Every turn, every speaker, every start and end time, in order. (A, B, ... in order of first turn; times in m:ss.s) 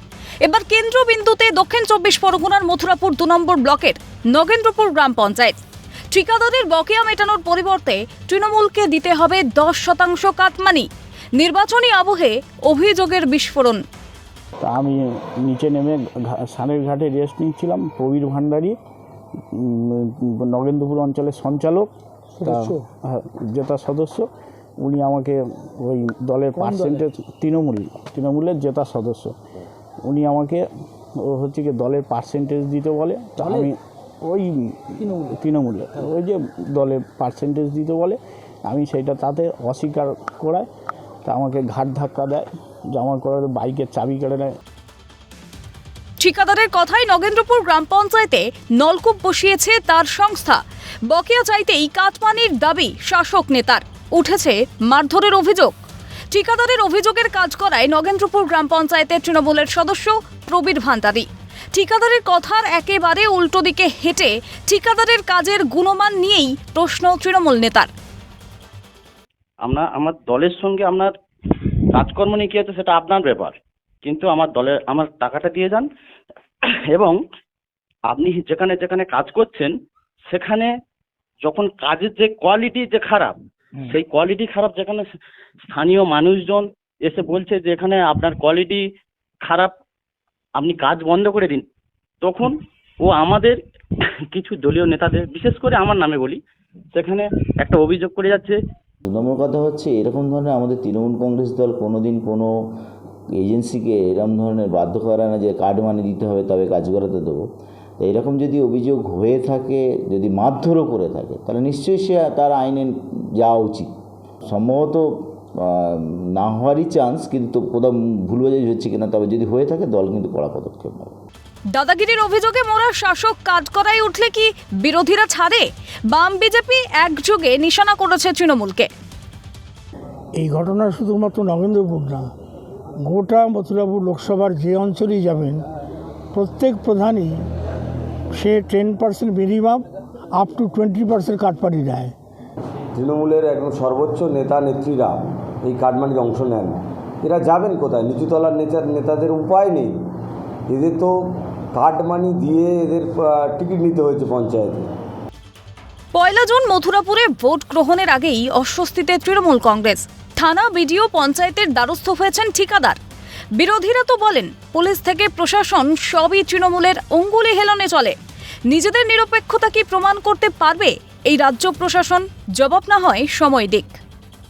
0:00.4-0:05.6 A
0:06.1-0:13.8 A
0:14.6-0:18.8 B
0:19.5-0:21.9 B
0:22.4-0:29.3 B
0:22.4-0:22.8 C
0:30.0-0:30.6 B
0:31.2-0:40.7 B
0:41.2-0:44.5 B
0:46.2-0:55.7 A
0:56.3-1:07.9 A
1:09.6-1:11.1 D
1:11.9-1:15.9 D
1:16.9-1:17.2 D
1:18.1-1:19.7 D
1:20.3-1:20.7 D
1:21.4-1:25.1 D
1:25.7-1:28.8 D
1:29.4-1:29.7 D
1:30.6-1:31.6 D
1:32.2-1:33.6 D
1:34.3-1:36.4 D
1:36.9-1:38.6 D
1:39.0-1:42.5 E
1:43.4-1:47.4 E
1:48.0-1:53.9 E
1:54.5-2:01.1 E
2:01.7-2:08.9 A
2:10.4-2:12.3 C
2:13.0-2:15.6 C
2:16.3-2:17.4 C
2:18.3-2:19.8 C
2:20.3-2:22.1 C
2:22.9-2:30.0 F
2:30.7-2:31.1 F
2:31.7-2:34.9 F
2:36.1-2:43.0 A
2:43.6-2:48.2 A
2:48.7-2:54.0 A